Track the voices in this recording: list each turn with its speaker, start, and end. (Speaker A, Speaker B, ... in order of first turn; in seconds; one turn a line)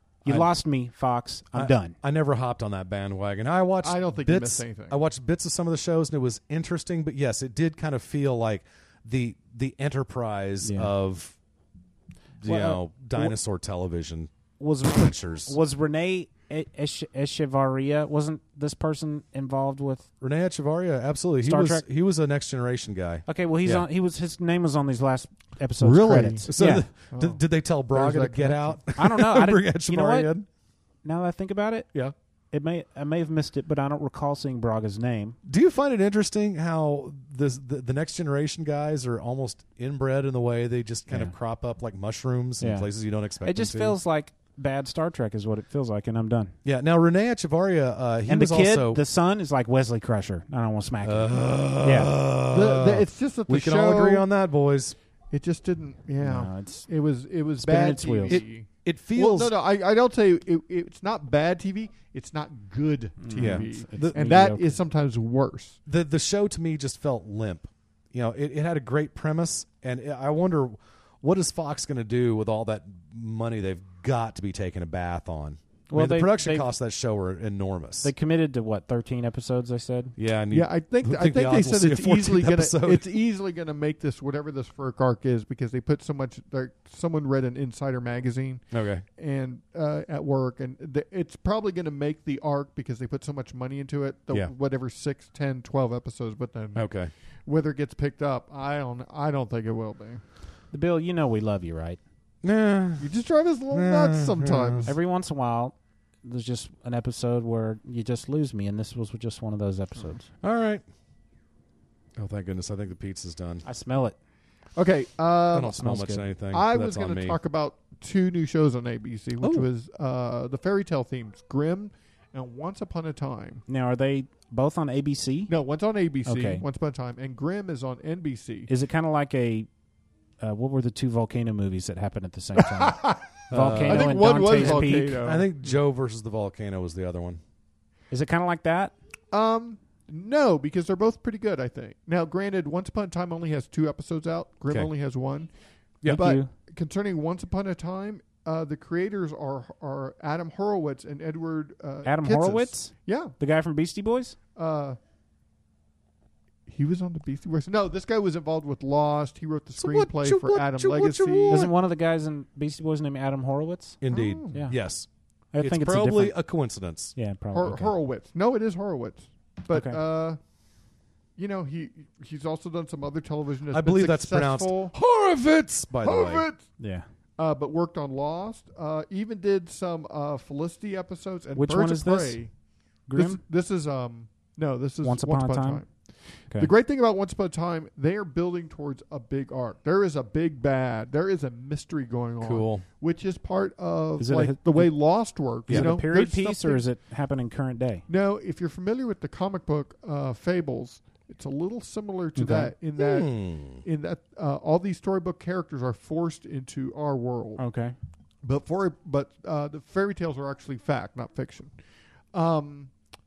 Speaker A: 0.2-2.0
Speaker B: 1.5-11.4
Speaker C: 3.8-5.0
Speaker A: 10.6-10.9
Speaker B: 12.4-14.3
Speaker A: 12.4-13.4
Speaker A: 14.6-20.1
Speaker B: 14.8-15.6
Speaker B: 20.2-23.9
Speaker A: 21.4-21.8
Speaker A: 23.3-26.9
Speaker B: 25.8-30.5
Speaker C: 26.1-26.5
Speaker C: 27.1-28.8
Speaker A: 29.0-30.3
Speaker A: 31.0-31.9
Speaker A: 32.5-35.4
Speaker B: 35.5-44.0
Speaker A: 41.1-41.3
Speaker A: 42.6-42.9
Speaker A: 43.4-46.5
Speaker B: 46.6-49.0
Speaker A: 48.3-52.1
Speaker B: 51.0-55.0
Speaker C: 52.5-54.3
Speaker C: 55.3-65.8
Speaker A: 56.2-56.9
Speaker A: 57.6-58.4
Speaker B: 58.3-59.5
Speaker A: 63.2-64.8
Speaker B: 63.4-64.2
Speaker B: 65.9-78.1
Speaker A: 75.9-76.7
Speaker A: 78.0-80.2
Speaker B: 80.2-83.2
Speaker C: 80.5-88.7
Speaker B: 88.7-89.0
Speaker C: 89.2-96.9
Speaker B: 96.8-97.1
Speaker C: 97.5-100.2
Speaker A: 100.7-102.0
Speaker B: 102.4-103.1
Speaker C: 103.0-104.9
Speaker B: 103.7-104.9
Speaker A: 104.9-110.2
Speaker B: 110.4-110.8
Speaker B: 112.2-113.6
Speaker A: 113.7-114.2
Speaker C: 114.8-115.8
Speaker B: 115.5-117.4
Speaker A: 115.8-116.2
Speaker C: 116.5-123.6
Speaker B: 119.4-119.7
Speaker A: 123.7-125.5
Speaker C: 125.5-128.7
Speaker A: 126.3-126.6
Speaker A: 128.7-129.7
Speaker A: 130.4-135.2
Speaker C: 132.6-133.2
Speaker B: 133.5-137.4
Speaker C: 133.8-135.5
Speaker A: 138.1-138.9
Speaker C: 139.3-145.5
Speaker A: 146.1-146.5
Speaker C: 146.1-153.3
Speaker A: 152.1-154.4
Speaker C: 154.6-155.0
Speaker C: 156.7-161.7
Speaker B: 159.8-161.7
Speaker A: 161.5-164.0
Speaker B: 164.0-167.2
Speaker C: 164.1-164.7
Speaker A: 165.5-166.4
Speaker A: 167.2-167.9
Speaker C: 167.5-170.4
Speaker A: 169.7-170.0
Speaker C: 171.4-174.9
Speaker B: 173.7-176.5
Speaker C: 176.0-176.6
Speaker A: 176.8-177.1
Speaker C: 177.4-182.5
Speaker A: 181.6-182.4
Speaker A: 183.1-183.4
Speaker C: 183.2-196.8
Speaker A: 185.0-185.8
Speaker B: 192.4-192.8
Speaker A: 194.2-194.9
Speaker A: 195.7-198.0
Speaker B: 195.7-195.9
Speaker C: 198.1-207.6
Speaker A: 202.4-202.7
Speaker B: 203.0-203.8
Speaker A: 207.6-207.9
Speaker C: 208.4-211.7
Speaker C: 212.3-212.9